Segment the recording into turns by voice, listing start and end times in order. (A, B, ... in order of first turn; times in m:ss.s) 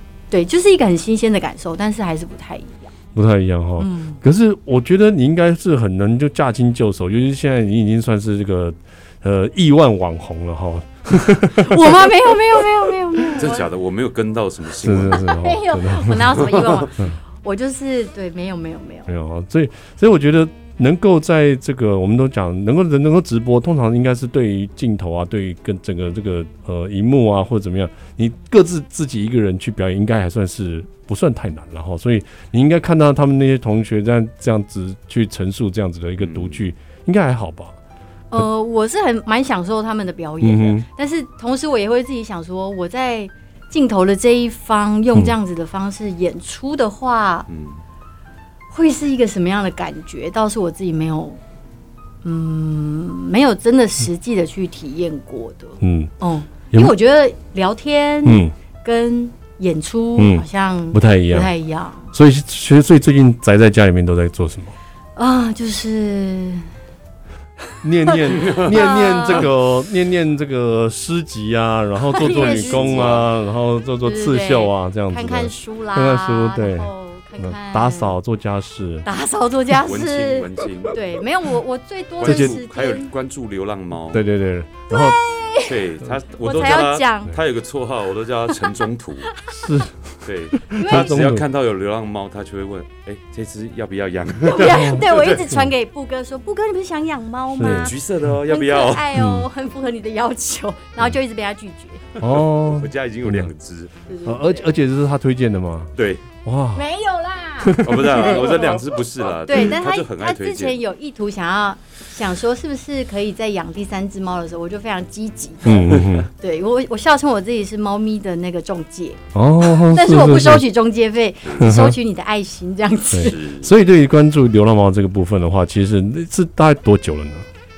0:00.3-0:02.9 A
0:03.1-0:13.3 B
0:03.8-0:04.2 A
0:11.5-0:13.7 A
0:13.4-0:15.3 C
0:14.8-0:16.5 B
0:15.1-0:19.1 A
0:16.2-0:16.8 C
0:19.1-0:37.8 B
0:36.2-0:36.6 C
0:38.3-0:47.5 A
0:40.4-0:40.8 B
0:47.5-0:47.8 C
0:48.7-0:51.4 A
0:52.2-1:02.1 A
0:55.8-0:56.1 B
0:58.2-0:58.5 B
1:00.2-1:01.5 B
1:02.1-1:04.7 B
1:05.2-1:06.6 A
1:07.8-1:19.0 B
1:08.1-1:09.5 A
1:08.3-1:08.7 C
1:12.1-1:13.2 A
1:12.2-1:13.3 C
1:14.0-1:18.1 A
1:19.0-1:23.1 A
1:19.7-1:21.0 C
1:22.2-1:24.2 C
1:22.2-1:22.6 B
1:24.1-1:25.2 B
1:24.9-1:25.8 A
1:25.6-1:29.3 C
1:26.4-1:27.4 A
1:29.3-1:29.8 A
1:29.5-1:29.9 B
1:30.2-1:35.4 C
1:30.6-1:31.4 B
1:30.7-1:31.2 A
1:34.4-1:42.0 A
1:34.7-1:35.0 B
1:37.5-1:37.9 B
1:37.6-1:39.1 C
1:39.1-1:39.5 B
1:42.2-1:43.9 C
1:42.2-1:43.5 B
1:44.1-1:44.7 A
1:44.2-1:45.9 B
1:46.0-1:46.2 C
1:46.4-1:46.8 B
1:46.7-2:03.4 A
1:47.6-1:48.2 B
1:47.8-1:50.8 C
1:55.6-1:56.3 B
1:55.9-1:56.2 C
1:59.3-2:00.6 B
2:01.6-2:02.0 B
2:03.1-2:07.5 B
2:03.2-2:03.7 C